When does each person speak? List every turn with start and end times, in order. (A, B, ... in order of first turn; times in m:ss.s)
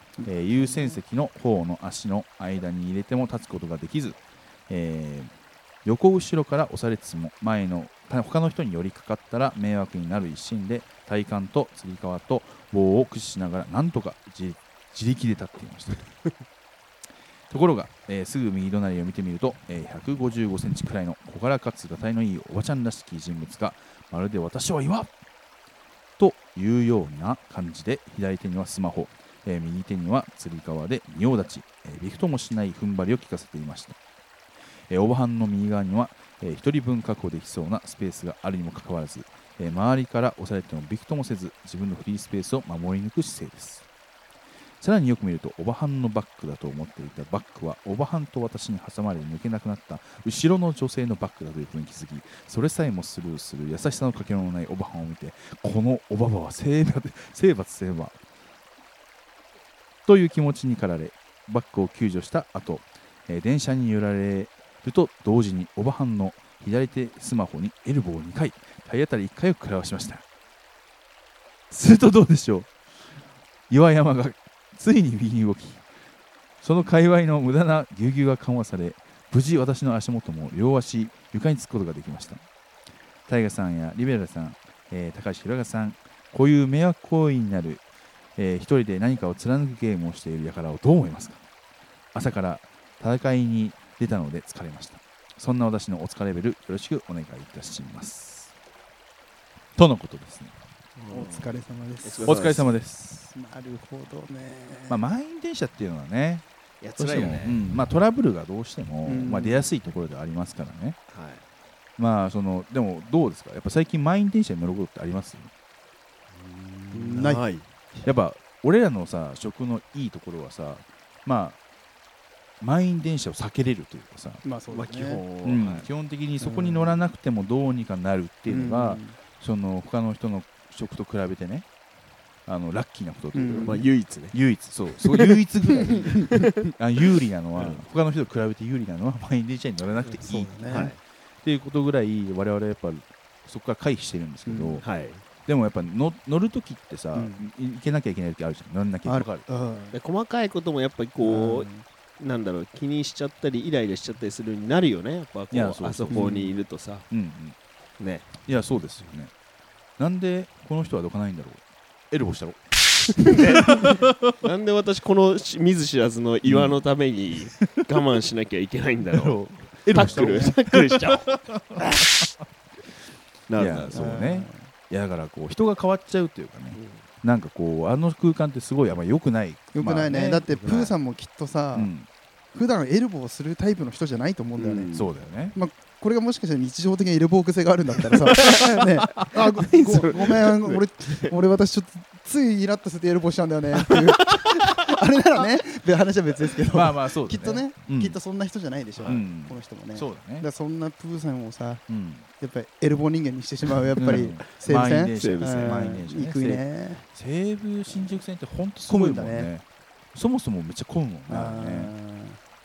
0:00.2-0:01.0 A
0:00.2-0:05.3 B
0:05.8-0:16.0 B
0:17.5-0:25.1 B
0:26.2-0:34.0 B
0:34.9-0:43.8 B
0:44.8-0:58.2 B
1:00.1-1:10.2 B
1:11.7-1:12.7 B
1:13.7-1:15.8 B
1:16.6-1:22.4 B
1:23.3-1:27.8 B
1:28.4-1:31.4 B
1:32.1-1:38.5 B
1:39.8-1:40.5 B
1:41.0-1:42.7 C
1:41.1-1:42.8 A
1:42.3-1:43.3 B
1:43.3-1:45.0 A
1:44.9-1:46.4 B
1:46.8-1:47.6 C
1:47.0-1:51.0 B
1:49.0-1:49.7 A
1:51.1-1:51.4 C
1:52.0-1:55.5 B
1:56.3-1:57.7 C
1:56.9-1:57.4 A
1:58.0-2:01.6 B
2:02.6-2:04.4 B
2:04.4-2:05.2 A
2:04.7-2:05.9 C
2:05.4-2:11.7 B
2:06.4-2:07.0 A
2:08.5-2:09.2 A
2:12.5-2:20.9 B
2:13.3-2:13.8 A
2:13.5-2:14.4 C
2:15.0-2:15.3 C
2:15.8-2:16.2 A
2:15.9-2:16.4 C
2:17.6-2:17.8 C
2:20.2-2:20.9 A
2:20.7-2:21.0 C
2:21.4-2:24.8 B
2:24.4-2:24.8 A
2:24.8-2:25.2 C
2:25.4-2:29.4 B
2:27.1-2:27.4 A
2:29.0-2:30.0 A
2:29.9-2:37.1 C
2:31.2-2:31.8 A
2:35.5-2:36.3 B
2:36.1-2:36.6 A
2:37.1-2:37.6 B
2:38.0-2:38.3 C
2:38.4-2:39.3 B
2:40.0-2:44.3 B
2:43.2-2:52.3 C
2:46.4-2:46.8 B
2:49.1-2:52.2 B
2:50.0-2:50.6 A
2:53.5-2:54.2 C
2:53.5-3:00.9 B
2:53.9-2:54.7 A
2:56.8-2:57.0 C
2:59.7-3:01.9 A
3:01.7-3:02.1 B
3:02.5-3:04.9 A
3:04.6-3:05.1 C
3:04.9-3:05.6 B
3:05.5-3:21.8 A
3:08.3-3:11.4 C
3:13.9-3:14.5 C
3:16.7-3:18.2 B
3:19.0-3:19.2 C
3:19.1-3:20.5 B
3:21.9-3:22.3 B
3:22.4-3:27.0 A
3:24.0-3:31.9 B
3:25.1-3:25.7 C
3:28.9-3:29.5 A
3:31.3-3:32.4 A